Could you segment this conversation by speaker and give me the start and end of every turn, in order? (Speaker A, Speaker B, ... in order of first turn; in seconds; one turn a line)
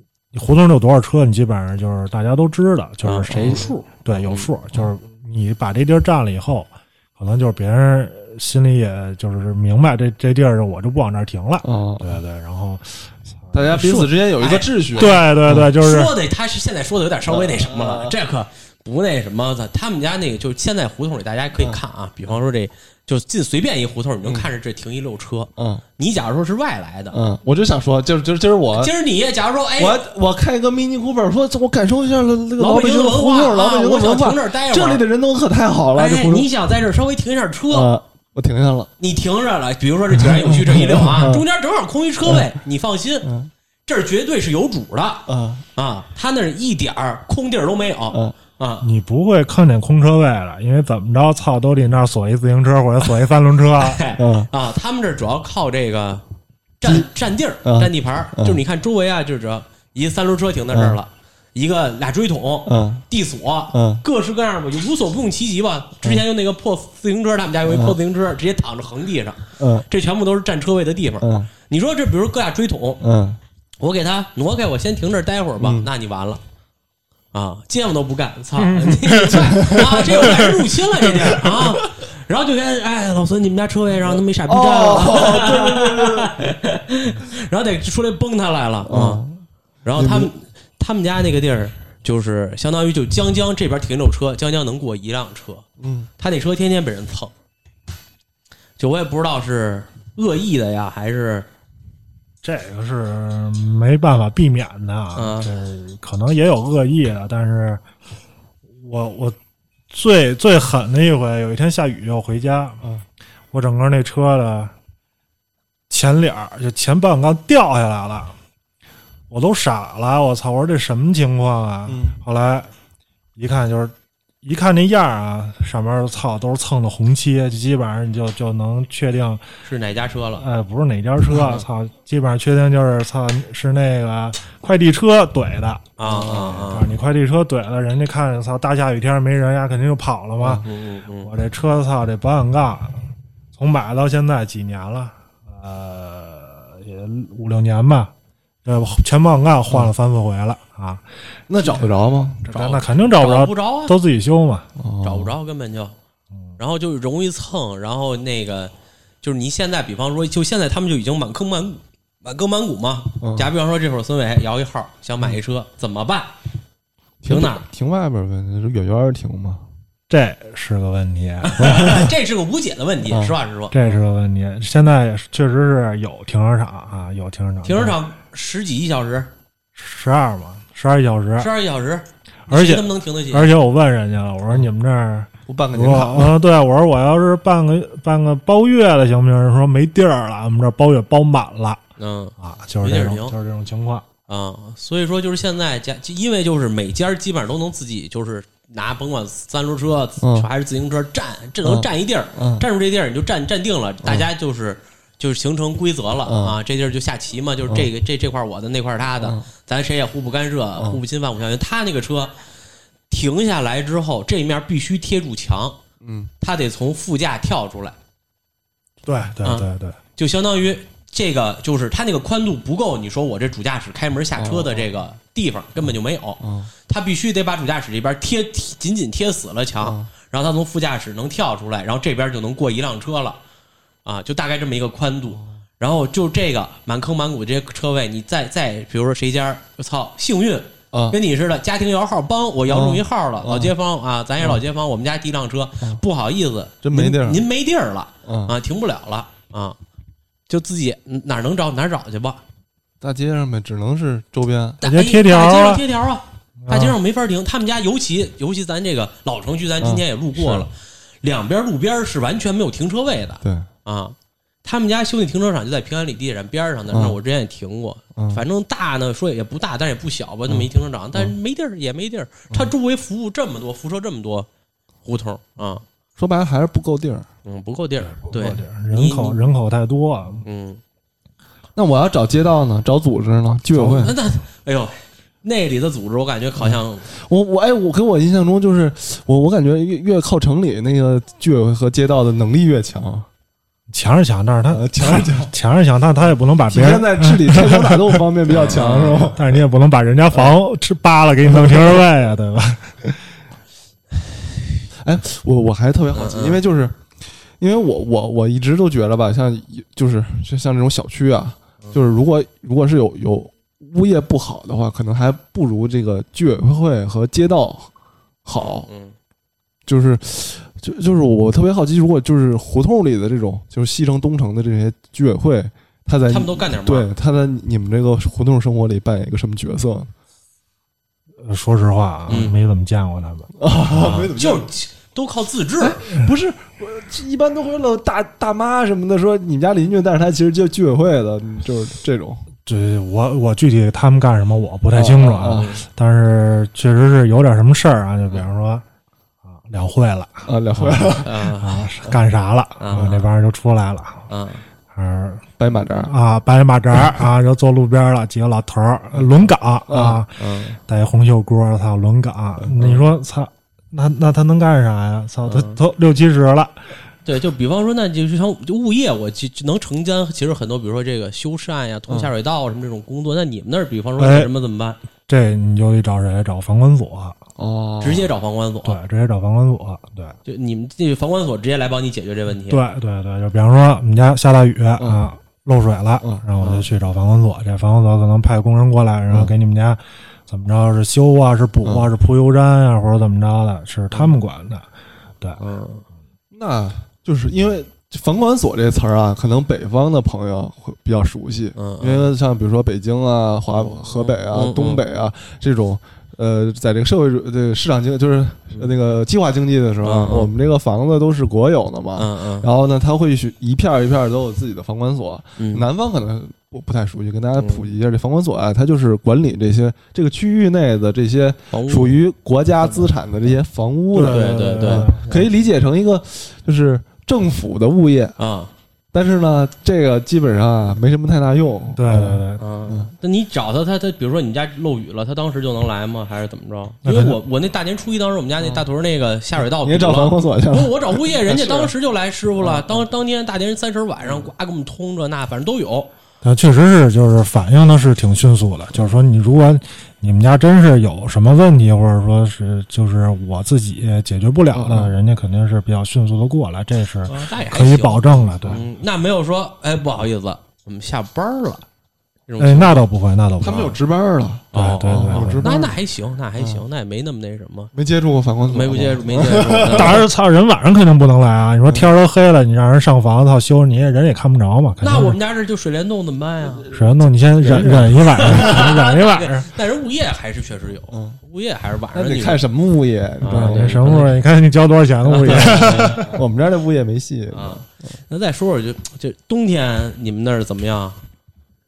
Speaker A: 0.3-14.1
Speaker B: 3.0-4.5
Speaker C: 3.4-3.7
Speaker C: 11.6-12.2
Speaker C: 13.5-15.7
Speaker B: 14.4-27.2
Speaker A: 14.9-16.1
Speaker C: 17.3-18.1
Speaker C: 25.6-25.8
Speaker C: 27.1-28.9
Speaker B: 28.7-30.0
Speaker C: 29.8-36.5
Speaker B: 32.6-35.0
Speaker B: 35.9-37.9
Speaker C: 37.7-38.9
Speaker B: 39.0-43.3
Speaker C: 40.3-41.4
Speaker C: 43.2-43.5
Speaker B: 43.9-48.9
Speaker C: 45.3-45.6
Speaker A: 48.8-54.0
Speaker B: 53.8-56.2
Speaker C: 54.2-54.5
Speaker B: 56.8-73.0
Speaker C: 56.8-57.1
Speaker C: 57.6-58.6
Speaker C: 60.7-61.0
Speaker C: 62.6-63.0
Speaker C: 63.7-64.0
Speaker C: 67.7-68.0
Speaker C: 69.6-69.8
Speaker C: 71.2-71.5
Speaker C: 73.0-73.4
Speaker B: 73.8-76.4
Speaker C: 75.6-75.9
Speaker B: 77.3-89.2
Speaker A: 78.6-80.5
Speaker C: 79.6-79.9
Speaker C: 84.1-86.4
Speaker C: 88.8-89.4
Speaker B: 89.8-95.6
Speaker C: 89.9-90.3
Speaker C: 95.8-96.1
Speaker B: 96.2-97.3
Speaker B: 98.8-101.5
Speaker A: 102.4-107.8
Speaker B: 105.1-105.5
Speaker A: 108.8-109.3
Speaker A: 109.9-112.8
Speaker A: 113.5-114.7
Speaker A: 115.9-118.3
Speaker A: 119.3-122.7
Speaker C: 121.8-122.2
Speaker A: 123.3-129.4
Speaker B: 129.6-130.4
Speaker A: 130.4-140.6
Speaker B: 136.0-136.9
Speaker B: 140.6-141.3
Speaker A: 141.2-143.0
Speaker A: 143.5-148.1
Speaker A: 148.6-151.0
Speaker C: 151.5-152.5
Speaker A: 152.5-154.7
Speaker B: 152.5-153.9
Speaker C: 154.8-155.3
Speaker B: 155.0-155.9
Speaker B: 156.6-166.3
Speaker C: 163.2-163.5
Speaker C: 167.2-169.6
Speaker B: 167.3-167.6
Speaker A: 170.1-172.0
Speaker B: 171.4-173.8
Speaker C: 171.6-172.1
Speaker C: 173.1-173.3
Speaker A: 173.7-178.0
Speaker B: 177.6-179.3
Speaker A: 179.8-181.5
Speaker B: 181.4-183.5
Speaker A: 182.5-191.8
Speaker C: 185.5-186.4
Speaker B: 192.0-193.3
Speaker A: 192.4-194.1
Speaker B: 194.3-212.3
Speaker C: 200.2-200.5
Speaker C: 201.6-202.6
Speaker C: 206.2-206.6
Speaker C: 209.2-209.5
Speaker B: 213.1-215.8
Speaker C: 216.0-216.3
Speaker B: 216.4-217.9
Speaker A: 219.0-220.0
Speaker B: 219.4-233.4
Speaker C: 224.3-224.9
Speaker C: 226.4-226.7
Speaker C: 229.8-230.1
Speaker B: 234.0-249.8
Speaker C: 240.9-241.2
Speaker C: 242.7-243.7
Speaker C: 246.8-247.4
Speaker C: 248.2-248.6
Speaker B: 250.5-252.4
Speaker C: 253.0-254.8
Speaker B: 254.8-274.5
Speaker A: 254.8-255.8
Speaker A: 256.6-257.0
Speaker C: 259.8-260.7
Speaker C: 263.4-263.7
Speaker C: 266.9-267.2
Speaker C: 268.1-268.4
Speaker C: 270.5-271.3
Speaker B: 275.0-275.8
Speaker C: 276.2-277.3
Speaker B: 277.4-279.4
Speaker A: 278.0-280.4
Speaker B: 280.4-280.8
Speaker C: 281.8-284.1
Speaker B: 283.8-287.1
Speaker C: 286.6-293.3
Speaker A: 293.9-298.2
Speaker C: 294.7-295.5
Speaker C: 296.7-299.6
Speaker B: 298.5-299.3
Speaker A: 299.2-303.2
Speaker C: 301.5-302.0
Speaker C: 305.0-307.0
Speaker B: 306.1-306.6
Speaker C: 307.6-317.9
Speaker C: 318.4-318.9
Speaker B: 318.5-319.1
Speaker C: 319.9-330.1
Speaker B: 326.3-327.1
Speaker A: 331.4-333.5
Speaker B: 332.3-332.6
Speaker C: 333.6-334.7
Speaker B: 333.9-336.0
Speaker C: 335.8-342.4
Speaker A: 342.6-348.8
Speaker C: 344.9-345.7
Speaker B: 345.4-345.8
Speaker A: 349.5-354.3
Speaker C: 350.4-351.3
Speaker B: 351.2-351.8
Speaker B: 352.8-353.3
Speaker B: 354.3-354.6
Speaker A: 354.9-355.4
Speaker C: 355.6-356.1
Speaker A: 356.0-366.8
Speaker C: 359.1-360.2
Speaker B: 360.4-360.8
Speaker B: 365.4-365.8
Speaker B: 367.2-375.0
Speaker A: 374.2-374.5
Speaker A: 375.3-377.4
Speaker C: 377.6-378.3
Speaker B: 378.0-379.0
Speaker A: 378.8-380.4
Speaker B: 380.4-382.8
Speaker A: 382.7-394.9
Speaker C: 385.0-385.2
Speaker B: 386.6-386.9
Speaker C: 391.8-392.1
Speaker B: 395.6-396.0
Speaker C: 396.5-428.4
Speaker B: 401.8-402.3
Speaker B: 403.7-405.0
Speaker B: 410.0-410.5
Speaker B: 412.2-412.7
Speaker B: 415.6-415.9
Speaker B: 417.6-417.9
Speaker B: 421.7-422.2
Speaker A: 424.1-425.4
Speaker B: 424.2-425.1
Speaker B: 428.4-428.7
Speaker C: 429.1-433.1
Speaker A: 431.9-432.6
Speaker B: 432.6-446.1
Speaker A: 437.0-437.4
Speaker C: 438.6-438.8
Speaker C: 439.6-441.9
Speaker C: 442.6-443.1
Speaker C: 444.2-444.5
Speaker A: 446.4-458.8
Speaker C: 454.7-455.1
Speaker B: 457.3-461.8
Speaker B: 462.5-463.0
Speaker A: 462.6-464.0
Speaker C: 463.6-465.9
Speaker B: 464.7-467.9
Speaker A: 464.7-465.7
Speaker C: 466.6-466.8
Speaker C: 467.9-470.3
Speaker B: 468.7-470.2
Speaker A: 469.9-475.4
Speaker B: 475.0-476.9
Speaker C: 476.8-477.1
Speaker A: 476.9-479.7
Speaker B: 477.6-482.6
Speaker C: 477.6-478.8
Speaker C: 481.1-481.4
Speaker C: 482.1-484.1
Speaker B: 483.4-484.3
Speaker A: 483.5-486.4
Speaker B: 485.2-486.3
Speaker C: 485.4-488.1
Speaker B: 487.5-491.2